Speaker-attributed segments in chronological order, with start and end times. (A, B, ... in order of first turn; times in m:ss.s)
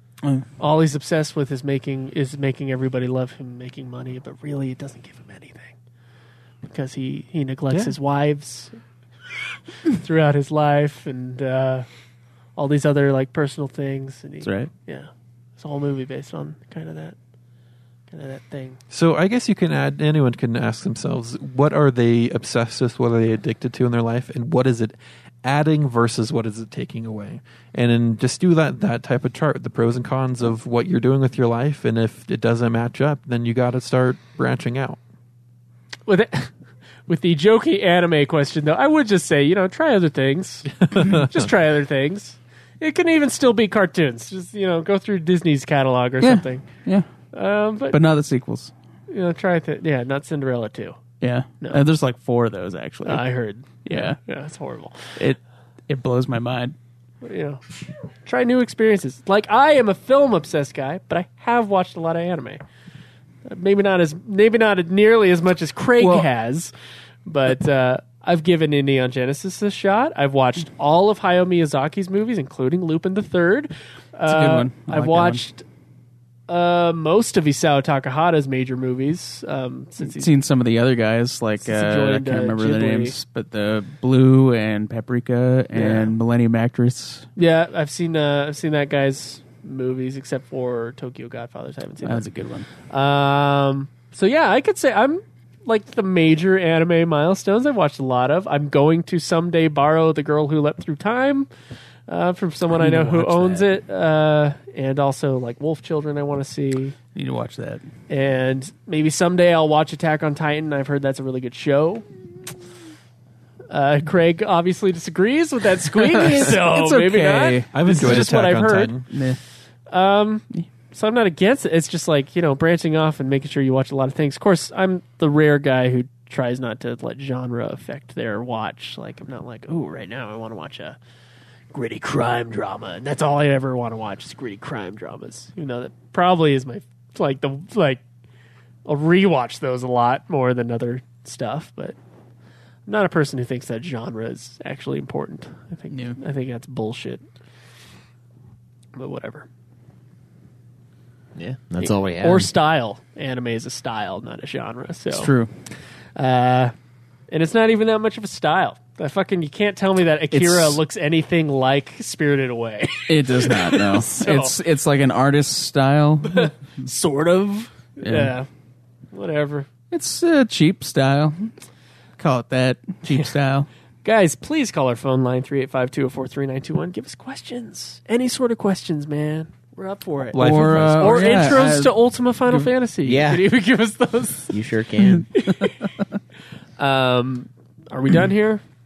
0:00.6-0:05.7 A
0:06.6-0:08.8 A
0:09.9-0:11.9 A
0:12.6-0:17.2 A
0:14.4-0:14.7 B
0:18.1-0:18.8 A
0:18.9-0:35.0 C
0:36.1-0:36.5 A
0:37.1-0:46.7 A
0:40.8-0:41.3 C
0:46.2-0:47.1 B
0:47.3-0:48.0 A
0:47.9-0:48.7 B
0:49.1-0:51.0 A
0:51.2-0:53.2 B
0:53.1-0:55.0 A
0:53.8-0:54.2 B
0:55.2-0:56.8 B
0:57.2-0:57.6 A
0:58.2-1:02.6 A
1:03.4-1:06.7 A
1:06.0-1:06.3 B
1:07.3-1:15.6 A
1:14.3-1:15.4 B
1:16.5-1:20.3 A
1:20.0-1:27.2 B
1:21.6-1:23.2 A
1:25.8-1:26.2 A
1:27.4-1:32.3 A
1:32.0-1:32.7 B
1:32.9-1:41.5 A
1:42.1-1:47.0 A
1:42.8-1:43.7 B
1:47.2-1:47.8 B
1:48.1-1:52.0 A
1:53.7-1:58.9 A
1:56.4-1:58.3 B
1:57.7-1:59.1 C
1:59.1-1:59.4 B
1:59.9-2:11.0 A
2:11.7-2:18.0 A
2:18.9-2:22.0 A
2:22.9-2:27.2 A
2:25.9-2:26.2 B
2:29.0-2:29.5 A
2:31.4-2:32.5 D
2:31.8-2:35.3 A
2:35.1-2:35.5 B
2:36.2-2:36.7 A
2:37.3-2:44.6 A
2:40.3-2:40.8 B
2:43.1-2:46.5 B
2:46.3-2:48.5 A
2:48.0-2:48.3 B
2:49.1-2:49.7 A
2:49.9-2:51.5 B
2:52.2-2:53.7 B
2:54.0-3:00.4 A
3:00.3-3:01.5 C
3:00.4-3:01.9 B
3:01.0-3:04.6 A
3:03.0-3:03.4 D
3:04.5-3:05.3 D
3:05.4-3:05.8 A
3:06.8-3:08.6 A